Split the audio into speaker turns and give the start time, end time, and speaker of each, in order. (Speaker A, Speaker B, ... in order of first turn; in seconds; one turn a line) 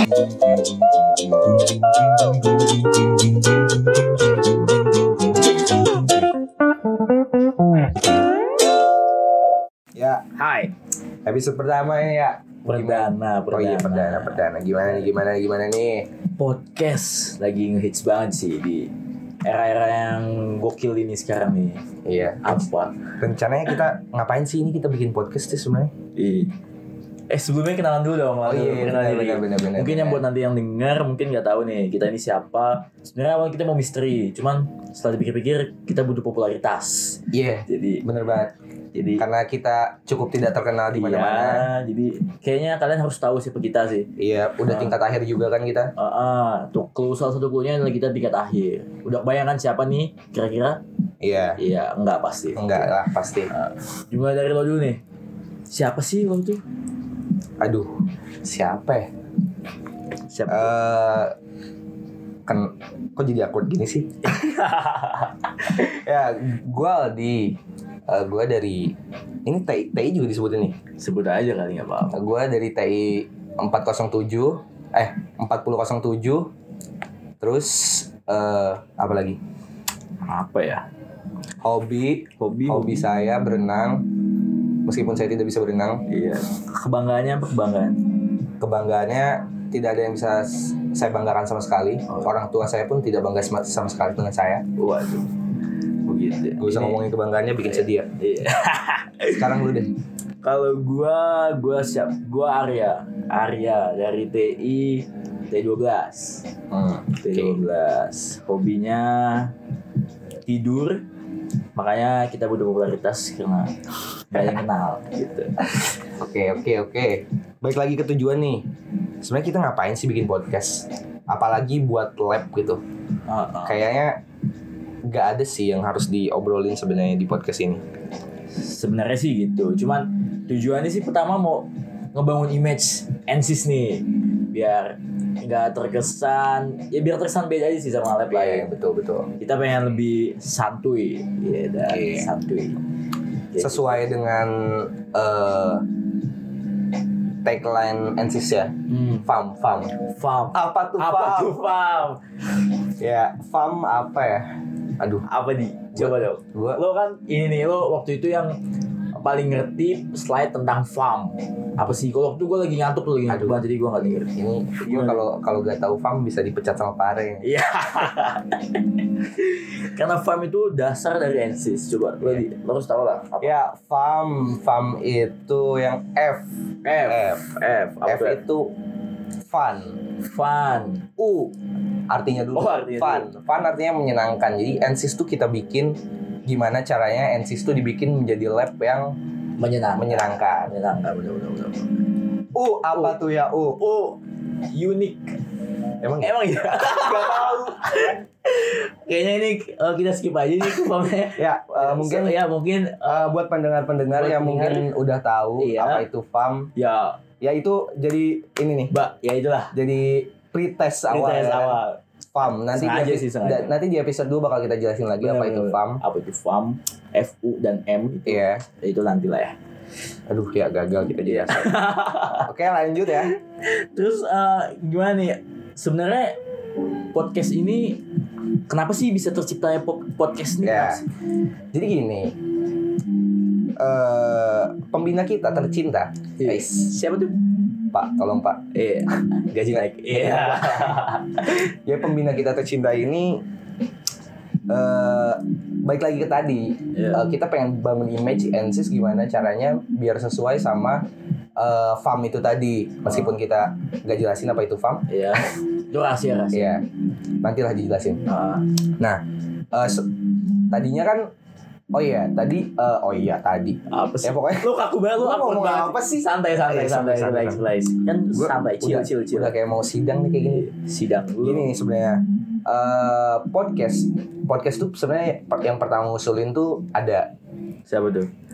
Speaker A: 0.4-0.8
Speaker A: 1.5-4.7
Speaker A: 9.9-10.2
Speaker B: 10.3-10.7
Speaker A: 11.2-16.1
Speaker B: 12.6-15.1
Speaker B: 16.4-18.9
Speaker B: 19.4-21.8
Speaker A: 22.0-22.5
Speaker B: 22.4-23.1
Speaker A: 23.2-25.9
Speaker B: 26.1-26.5
Speaker B: 27.3-38.0
Speaker A: 28.4-30.2
Speaker A: 37.3-38.5
Speaker B: 38.9-39.2
Speaker A: 39.2-41.7
Speaker B: 40.9-44.1
Speaker A: 44.2-45.9
Speaker B: 44.6-45.0
Speaker B: 46.0-50.8
Speaker A: 51.2-51.6
Speaker B: 51.6-53.0
Speaker A: 52.5-53.5
Speaker B: 53.5-55.0
Speaker B: 55.7-56.6
Speaker A: 57.6-57.9
Speaker A: 58.4-59.1
Speaker B: 60.3-60.7
Speaker A: 60.5-61.3
Speaker A: 62.5-64.4
Speaker B: 64.2-65.8
Speaker A: 65.7-70.8
Speaker B: 71.0-72.2
Speaker A: 72.1-76.5
Speaker A: 77.4-79.4
Speaker B: 80.2-80.8
Speaker A: 81.6-84.1
Speaker B: 82.4-83.0
Speaker A: 84.8-86.0
Speaker B: 86.1-88.0
Speaker A: 88.6-94.6
Speaker B: 92.1-92.3
Speaker B: 94.8-95.4
Speaker B: 96.0-97.0
Speaker A: 96.6-98.1
Speaker B: 97.6-99.8
Speaker A: 99.4-99.9
Speaker B: 100.4-106.5
Speaker A: 106.7-107.6
Speaker B: 107.2-109.5
Speaker B: 110.4-111.0
Speaker B: 111.8-115.9
Speaker A: 116.1-118.7
Speaker A: 119.2-122.8
Speaker B: 123.3-123.8
Speaker A: 123.6-124.2
Speaker A: 125.0-127.8
Speaker B: 128.5-138.7
Speaker A: 138.3-139.3
Speaker B: 139.4-142.8
Speaker A: 141.9-142.3
Speaker B: 143.5-144.1
Speaker A: 143.6-145.9
Speaker A: 147.4-149.9
Speaker B: 148.9-152.2
Speaker A: 150.5-151.7
Speaker A: 153.0-155.2
Speaker B: 155.2-158.6
Speaker A: 155.9-156.8
Speaker B: 159.1-165.3
Speaker A: 163.3-163.6
Speaker A: 164.3-167.5
Speaker B: 167.4-173.5
Speaker A: 173.4-176.5
Speaker B: 176.8-178.4
Speaker A: 177.1-177.5
Speaker A: 178.0-178.7
Speaker A: 179.5-180.0
Speaker B: 180.2-181.5
Speaker A: 182.1-189.2
Speaker B: 182.5-183.3
Speaker B: 189.6-192.1
Speaker A: 189.9-190.7
Speaker A: 192.5-193.8
Speaker B: 192.9-193.2
Speaker B: 193.8-194.2
Speaker B: 194.7-195.4
Speaker A: 196.0-197.8
Speaker B: 196.2-203.4
Speaker A: 201.4-202.4
Speaker A: 203.0-206.7
Speaker B: 204.1-204.9
Speaker B: 205.6-206.1
Speaker B: 206.8-207.2
Speaker A: 207.4-208.9
Speaker B: 208.9-209.8
Speaker A: 209.7-211.8
Speaker B: 211.1-212.0
Speaker A: 212.3-216.0
Speaker B: 212.7-213.7
Speaker B: 215.2-219.6
Speaker A: 218.2-218.6
Speaker A: 220.3-221.8
Speaker B: 221.2-222.5
Speaker A: 222.4-223.3
Speaker B: 223.1-226.4
Speaker B: 227.1-228.0
Speaker B: 228.7-231.1
Speaker A: 230.6-231.0
Speaker A: 231.7-232.3
Speaker A: 233.8-236.9
Speaker B: 236.4-237.4
Speaker A: 237.9-238.6
Speaker B: 238.7-241.6
Speaker A: 239.7-241.0
Speaker A: 241.8-243.4
Speaker A: 244.7-251.0
Speaker B: 246.9-247.2
Speaker A: 251.6-255.0
Speaker B: 253.1-253.3
Speaker B: 255.1-256.7
Speaker A: 256.5-256.8
Speaker A: 257.4-258.2
Speaker B: 258.2-258.6
Speaker A: 259.0-260.1
Speaker A: 260.7-261.3
Speaker A: 261.9-267.6
Speaker B: 263.9-269.5
Speaker A: 268.3-270.7
Speaker B: 270.5-271.7
Speaker A: 271.4-277.3
Speaker B: 277.9-278.3